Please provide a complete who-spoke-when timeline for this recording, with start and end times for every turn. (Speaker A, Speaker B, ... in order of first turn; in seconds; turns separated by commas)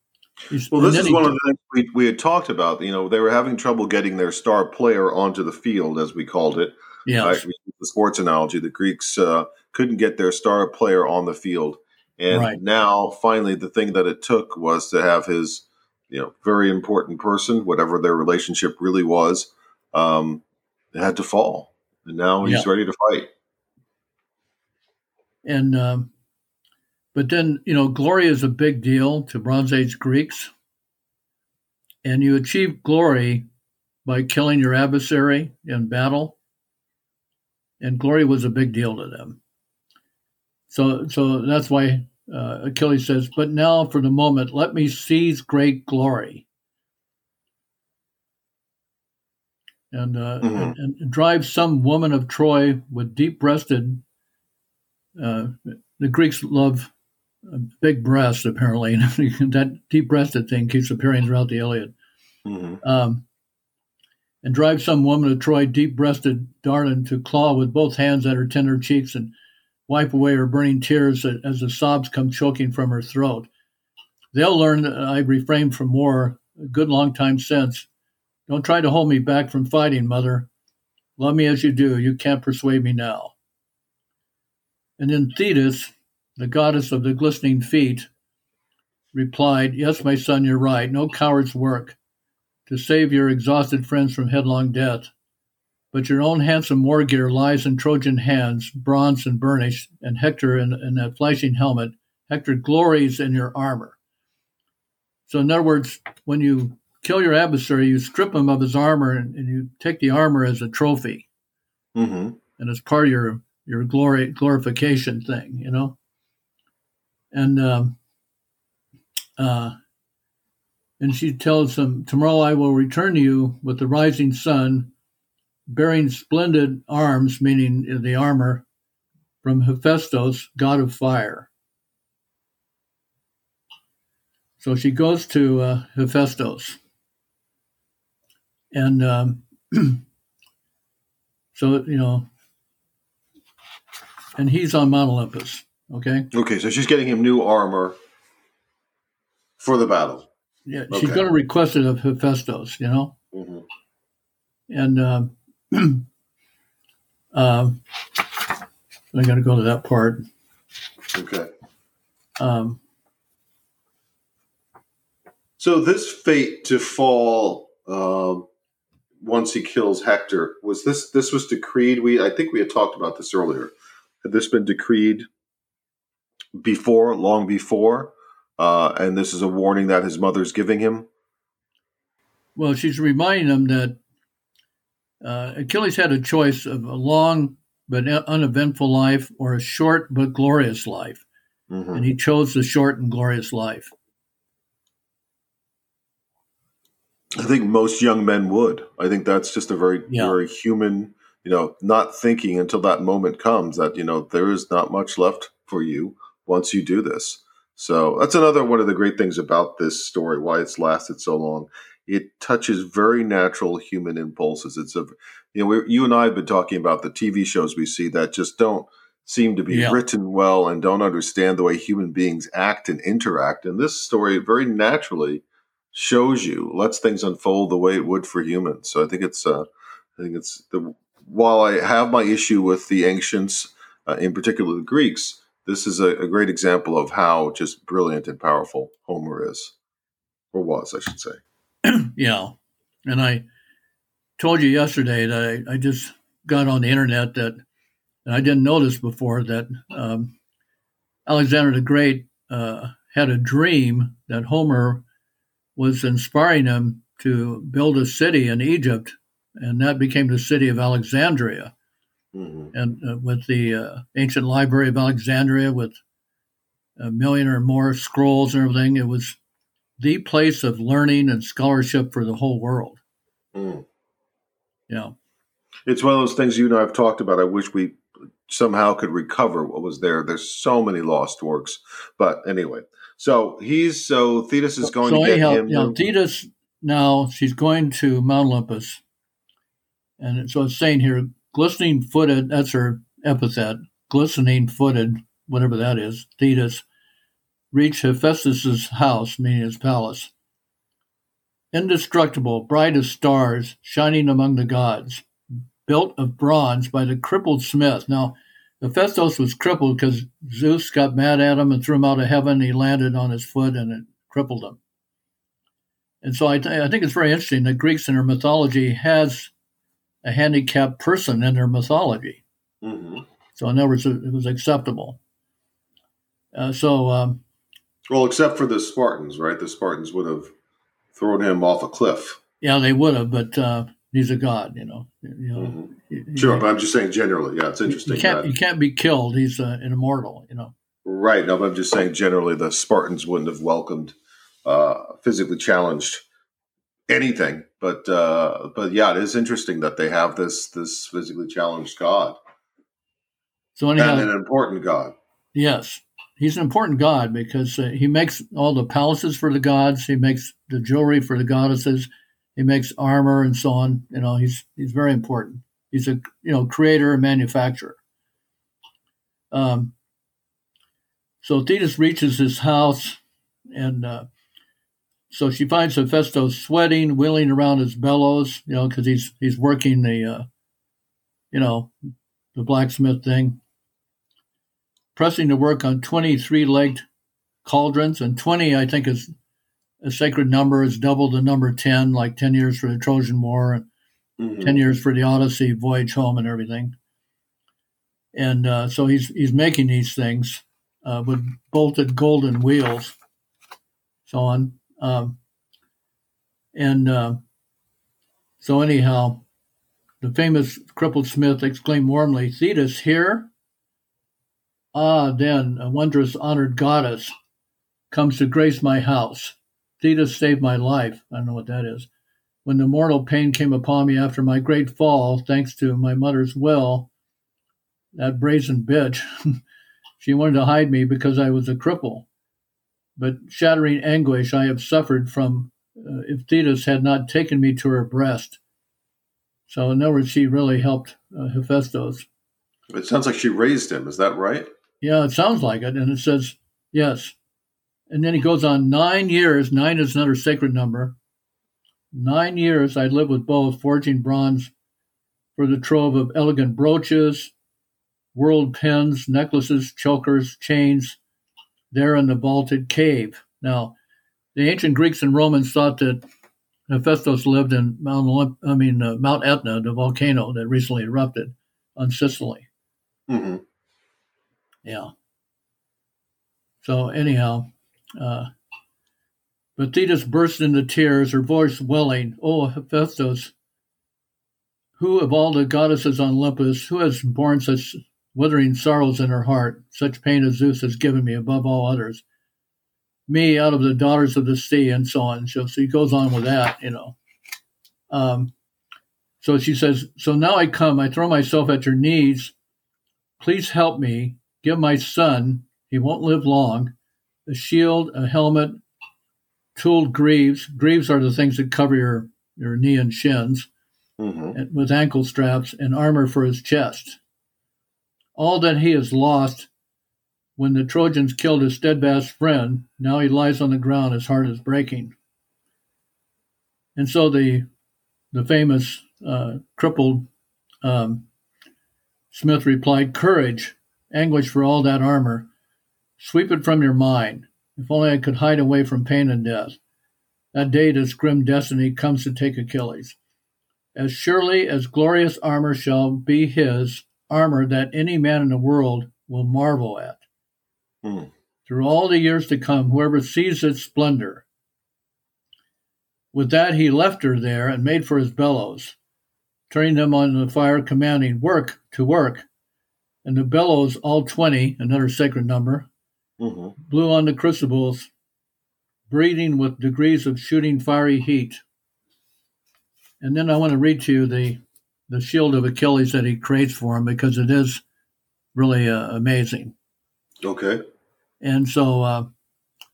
Speaker A: 0.5-1.3, Speaker B: 0.7-23.3, Speaker A: 7.0-7.4, Speaker A: 12.3-12.6, Speaker A: 22.4-22.7, Speaker A: 25.4-26.1, Speaker A: 27.1-30.5, Speaker A: 32.0-33.5, Speaker A: 34.0-36.4, Speaker A: 37.8-39.4, Speaker A: 40.7-46.4, Speaker A: 49.9-54.0, Speaker B: 50.4-50.7, Speaker A: 55.2-56.9, Speaker A: 57.5-61.9, Speaker B: 62.5-62.8, Speaker A: 62.8-63.2, Speaker A: 64.4-69.3, Speaker A: 69.9-73.5, Speaker A: 74.3-77.9, Speaker A: 78.5-80.5, Speaker A: 81.2-83.3, Speaker A: 85.0-88.1, Speaker A: 89.1-92.0, Speaker A: 92.7-95.1, Speaker A: 95.9-104.0, Speaker A: 105.3-111.3, Speaker B: 111.9-112.4, Speaker A: 112.6-116.0, Speaker A: 117.3-118.0, Speaker A: 119.4-119.7, Speaker A: 121.0-124.9, Speaker A: 125.7-128.7, Speaker A: 129.4-131.5, Speaker A: 134.6-136.8, Speaker A: 138.7-140.0, Speaker A: 141.5-142.3, Speaker A: 144.3-146.3, Speaker B: 146.3-148.0, Speaker B: 149.6-150.3, Speaker A: 150.7-153.1, Speaker B: 150.9-151.2, Speaker B: 153.3-153.6, Speaker A: 154.7-156.0, Speaker A: 157.3-157.8, Speaker A: 159.1-160.2, Speaker B: 161.1-161.5, Speaker A: 162.4-162.8, Speaker B: 165.6-168.5, Speaker B: 169.2-175.3, Speaker B: 176.6-181.1, Speaker A: 182.6-184.0, Speaker A: 185.2-191.2, Speaker B: 191.7-192.1, Speaker A: 191.9-193.9, Speaker B: 197.3-229.7, Speaker A: 200.1-200.4, Speaker A: 219.7-220.0, Speaker B: 230.2-239.7, Speaker B: 240.5-241.4, Speaker A: 241.8-243.4, Speaker A: 244.4-247.6, Speaker A: 248.2-250.3, Speaker A: 251.3-255.0, Speaker A: 255.8-261.7, Speaker B: 262.3-262.7, Speaker A: 262.7-266.0, Speaker A: 267.0-269.4, Speaker A: 270.0-273.0, Speaker B: 273.5-273.8, Speaker A: 274.9-275.1, Speaker B: 275.9-286.0, Speaker A: 284.8-289.0, Speaker A: 290.2-296.8, Speaker A: 297.7-300.3, Speaker A: 301.7-305.2, Speaker A: 305.9-314.8, Speaker A: 316.2-319.5, Speaker A: 320.2-322.4, Speaker B: 322.8-323.2, Speaker A: 323.6-325.2, Speaker A: 326.5-327.4, Speaker B: 328.1-330.5, Speaker B: 331.1-332.4, Speaker A: 332.6-336.6, Speaker B: 335.6-338.5, Speaker A: 337.9-340.7, Speaker B: 341.0-346.2, Speaker B: 347.1-352.4, Speaker A: 353.8-354.3, Speaker B: 354.0-355.1, Speaker A: 355.5-368.0, Speaker A: 369.5-369.9, Speaker A: 371.4-373.2, Speaker A: 373.7-374.2, Speaker A: 375.3-380.4, Speaker A: 381.5-381.9, Speaker A: 382.5-383.6, Speaker A: 385.1-387.0, Speaker A: 387.6-389.3, Speaker A: 390.0-393.9, Speaker B: 394.4-394.8, Speaker A: 394.6-396.9, Speaker A: 398.3-403.1, Speaker A: 404.2-405.4, Speaker A: 406.7-407.4, Speaker A: 408.6-409.4, Speaker A: 410.2-413.5, Speaker A: 414.9-417.3, Speaker A: 418.1-422.1, Speaker A: 422.6-427.1, Speaker A: 428.1-429.6, Speaker A: 430.2-432.3, Speaker A: 433.2-438.6, Speaker A: 439.7-442.3, Speaker B: 442.9-444.7, Speaker A: 445.0-447.3, Speaker A: 448.1-451.1, Speaker A: 452.1-454.7, Speaker A: 455.6-457.5, Speaker A: 458.3-461.2, Speaker A: 461.9-463.9, Speaker A: 464.5-466.2, Speaker A: 466.9-472.7, Speaker B: 473.3-473.6, Speaker A: 474.8-475.1, Speaker A: 476.8-478.5, Speaker A: 479.8-483.5, Speaker A: 485.0-492.2, Speaker A: 493.3-497.1, Speaker A: 498.1-498.5, Speaker A: 499.4-502.5, Speaker A: 503.4-506.9, Speaker A: 507.5-508.8, Speaker A: 509.8-513.7, Speaker B: 514.2-514.5, Speaker A: 514.5-517.2, Speaker A: 518.3-519.7, Speaker A: 520.6-525.1, Speaker A: 527.0-527.6, Speaker A: 528.3-530.3, Speaker A: 530.8-531.2, Speaker A: 532.3-535.5, Speaker A: 536.2-539.8, Speaker A: 540.5-543.2, Speaker A: 543.9-550.2, Speaker B: 551.0-551.3, Speaker A: 551.6-554.4, Speaker A: 556.3-559.0, Speaker A: 559.7-562.5, Speaker A: 563.2-565.9, Speaker B: 566.4-566.7, Speaker A: 566.8-568.1, Speaker A: 569.1-571.6, Speaker A: 573.2-577.8, Speaker A: 578.5-579.7, Speaker B: 580.4-580.8, Speaker A: 581.4-582.3